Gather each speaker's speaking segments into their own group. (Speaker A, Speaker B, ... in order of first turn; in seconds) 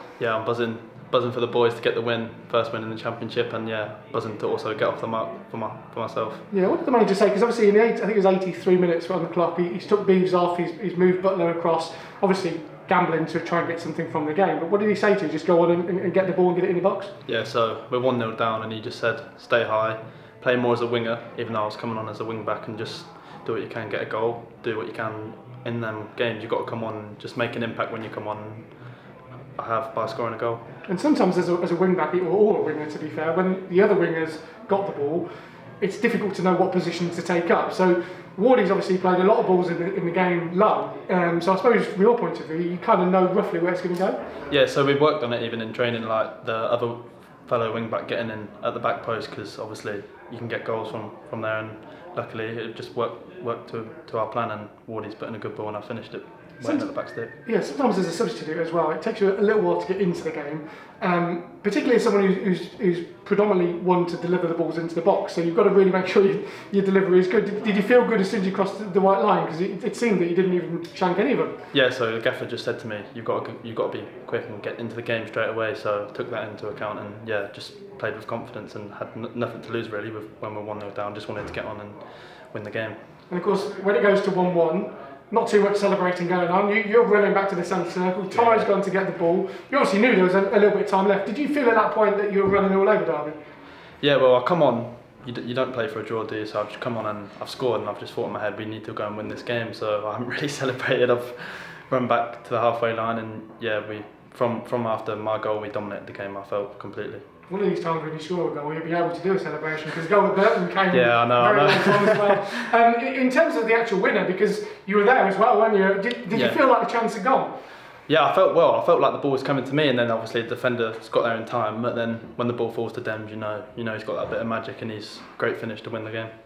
Speaker A: 0.2-6.4, 17.3-28.8, 29.6-30.6, 44.5-57.3, 71.7-83.0, 88.3-88.7, 94.0-107.2, 110.9-112.4, 116.3-116.6, 118.1-126.3
Speaker B: 6.5-17.1, 30.9-35.3, 35.8-44.2, 56.6-71.6, 83.3-93.4, 107.5-117.5